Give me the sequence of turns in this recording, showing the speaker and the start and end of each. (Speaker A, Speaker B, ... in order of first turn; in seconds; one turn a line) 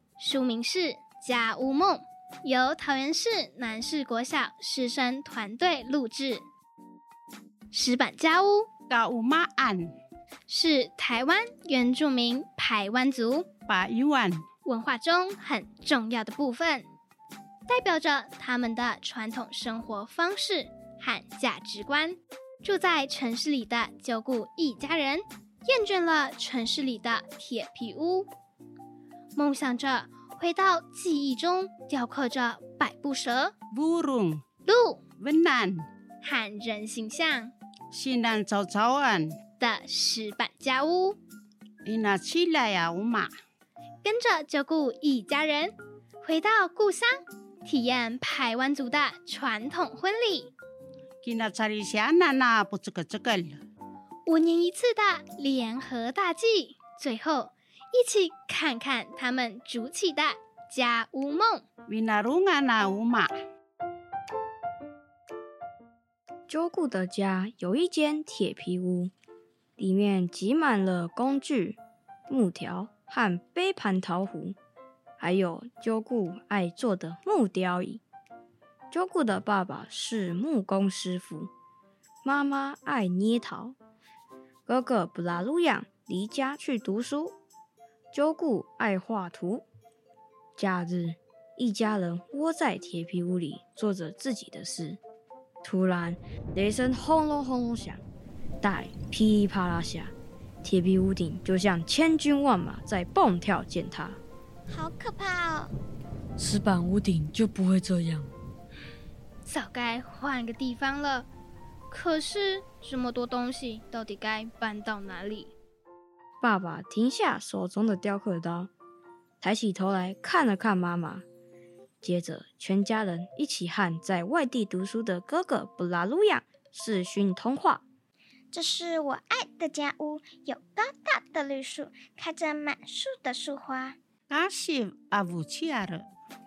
Speaker A: 0.2-6.4
Speaker A: 7.7-8.7
Speaker B: 8.9-9.9
Speaker A: 10.5-13.5
Speaker B: 13.7-14.4
Speaker A: 14.6-16.9
Speaker A: 17.7-28.3
Speaker A: 29.4-33.5
Speaker B: 33.7-34.4
Speaker A: 34.6-35.0
Speaker B: 35.2-35.9
Speaker A: 36.2-37.5
Speaker B: 37.9-39.3
Speaker A: 39.6-41.2
Speaker B: 41.8-43.3
Speaker A: 44.0-50.5
Speaker B: 51.2-53.6
Speaker A: 54.2-61.6
Speaker B: 61.9-63.3
Speaker C: 66.5-69.1
Speaker C: 69.8-74.5
Speaker C: 75.2-78.0
Speaker C: 78.9-81.5
Speaker C: 82.2-83.8
Speaker C: 84.7-87.3
Speaker C: 88.1-89.6
Speaker C: 90.6-95.0
Speaker C: 95.6-98.0
Speaker C: 98.6-104.2
Speaker D: 104.7-105.7
Speaker E: 106.4-108.3
Speaker A: 109.4-111.3
Speaker A: 111.9-115.5
Speaker C: 116.4-118.7
Speaker C: 119.4-121.2
Speaker C: 122.0-127.8
Speaker D: 128.5-134.0
Speaker B: 134.3-136.1